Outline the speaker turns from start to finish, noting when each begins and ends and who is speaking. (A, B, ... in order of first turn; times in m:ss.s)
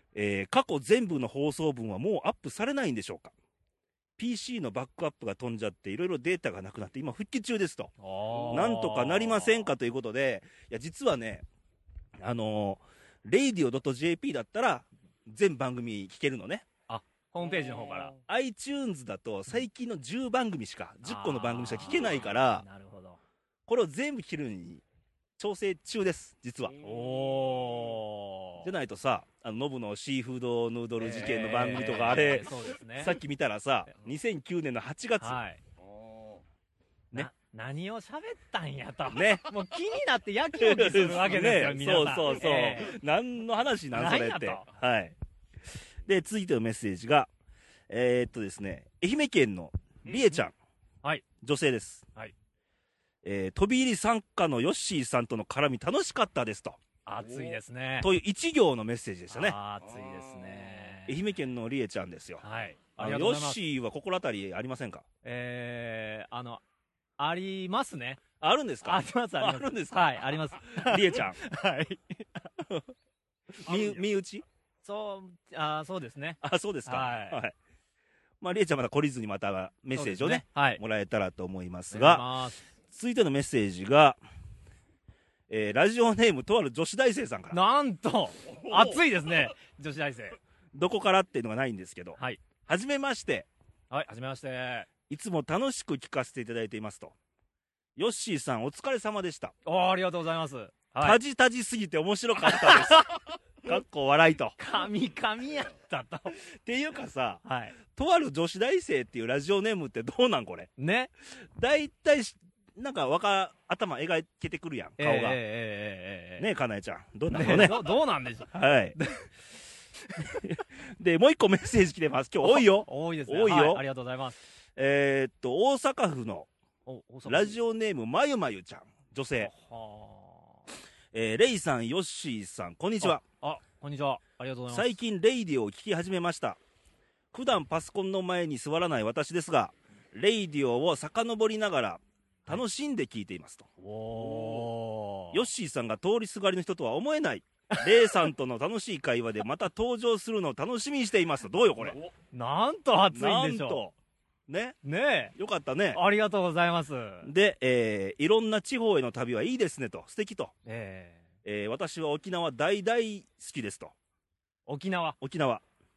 0:00.1-0:03.3 A
0:04.2-0:07.9 A
0:08.0-0:09.6 B
0:08.3-0:08.6 C
0:08.5-0:11.4 A
0:12.2-0:16.7 A
0:16.9-0:18.1 B
0:17.6-0:18.1 C
0:18.3-0:22.6 A
0:21.0-0:23.2 B
0:23.7-0:24.8 A
0:25.4-0:26.8 A
0:26.8-0:28.7 B
0:26.8-0:27.3 C
0:28.6-0:35.4 A
0:31.0-0:33.2 B
0:35.2-0:35.6 B
0:35.8-0:36.4 C
0:37.1-0:43.0 B
0:39.1-0:39.5 A
0:40.6-0:45.2 A
0:43.9-0:44.7 B
0:46.1-0:47.3 A
0:47.9-0:50.5 A
0:50.1-0:50.4 B
0:51.4-0:52.1 A
0:53.2-0:56.8 A
0:57.1-0:58.1 B
0:57.2-0:57.6 C
0:58.0-0:59.6 A
0:59.3-1:01.2 B
0:59.8-1:00.8 C
1:01.1-1:02.4 A
1:02.4-1:03.6 B
1:03.0-1:05.0 A
1:05.2-1:06.6 B
1:07.2-1:08.2 B
1:08.4-1:11.4 A
1:08.8-1:12.2 B
1:13.6-1:14.4 A
1:13.6-1:14.0 B
1:14.8-1:17.4 B
1:16.4-1:17.6 A
1:18.4-1:22.2 A
1:19.9-1:20.8 B
1:21.9-1:22.7 B
1:22.9-1:24.2 A
1:25.5-1:27.6 A
1:27.5-1:30.4 B
1:28.6-1:29.0 C
1:30.7-1:33.5 A
1:33.9-1:34.9 B
1:35.1-1:37.1 A
1:38.0-1:39.5 A
1:39.6-1:41.2 B
1:41.0-1:43.1 A
1:42.4-1:43.0 B
1:43.6-1:44.6 A
1:44.6-1:46.4 B
1:46.4-1:50.7 A
1:47.4-1:47.8 B
1:50.8-1:51.1 B
1:51.4-1:55.4 A
1:55.0-1:56.4 B
1:56.4-1:57.9 A
1:57.3-1:59.2 B
1:58.5-1:58.9 A
2:00.2-2:03.8 A
2:02.4-2:04.4 B
2:04.8-2:06.5 A
2:06.9-2:07.6 B
2:07.3-2:09.5 A
2:09.4-2:10.6 B
2:11.1-2:13.2 A
2:13.0-2:15.0 B
2:14.7-2:16.6 A
2:17.3-2:23.7 A
2:23.8-2:25.4 B
2:24.2-2:24.7 C
2:25.3-2:32.0 A
2:31.8-2:32.1 C
2:32.3-2:33.8 B
2:33.1-2:33.9 A
2:34.5-2:34.8 A
2:34.8-2:35.3 B
2:35.3-2:36.0 A
2:35.9-2:37.3 B
2:37.2-2:40.6 A
2:40.6-2:41.2 B
2:41.4-2:43.9 A
2:44.7-2:45.2 B
2:45.2-2:45.6 A